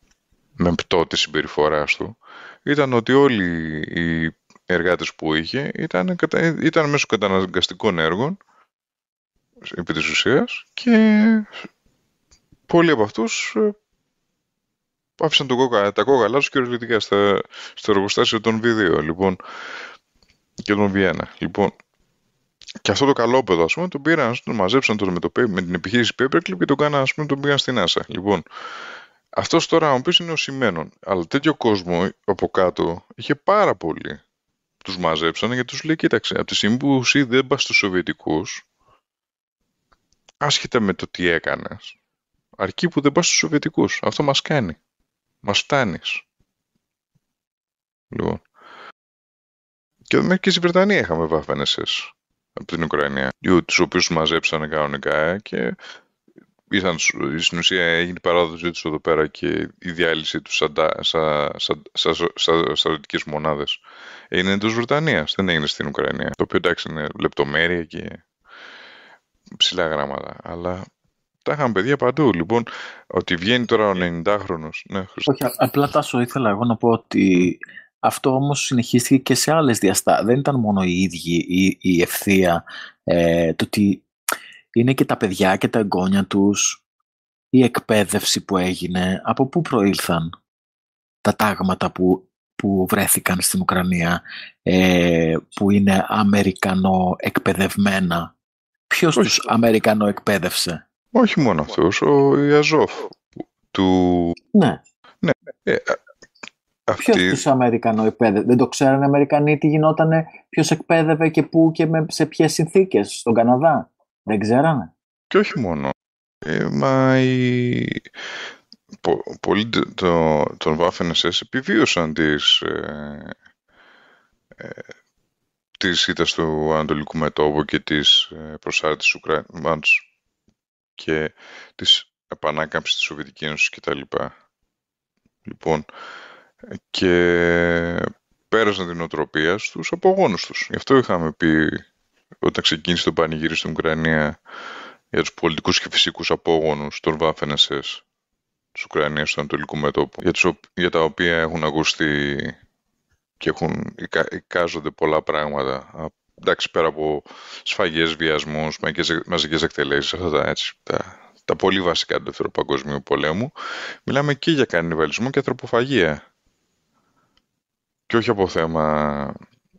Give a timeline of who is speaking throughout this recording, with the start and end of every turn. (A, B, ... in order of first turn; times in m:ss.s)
0:00.6-0:08.4 A
0:09.6-0:11.6 A
0:12.7-0:13.8 A
0:15.2-0:19.4 A
0:20.6-0:21.7 A
0:22.8-0:28.4 A
0:29.4-0:34.2 A
0:34.8-0:38.6 A
0:40.4-0:42.0 A
0:42.6-0:44.8 A
0:45.4-0:46.2 A
0:48.1-0:48.4 A
0:50.1-0:55.8 A
0:56.7-1:03.8 A
1:04.3-1:08.2 A
1:09.6-1:10.8 A
1:11.4-1:15.3 A
1:15.3-1:24.1 B
1:24.8-1:26.8 B
1:27.5-1:30.3 B
1:31.2-1:38.3 B
1:38.9-1:40.8 B
1:41.1-1:43.2 A
1:43.7-1:44.4 A
1:44.5-1:44.8 B
1:45.2-1:46.0 A
1:46.9-1:47.4 A
1:46.9-1:54.9 B
1:55.3-1:58.0 A
1:59.0-2:03.3 A
2:04.6-2:04.9 A
2:05.8-2:10.0 A
2:11.0-2:14.3 A
2:15.4-2:15.9 A
2:16.7-2:21.8 A
2:22.4-2:24.4 A
2:25.1-2:28.0 A
2:28.7-2:32.6 A
2:33.4-2:43.5 A
2:44.0-2:46.2 A
2:48.1-2:49.4 A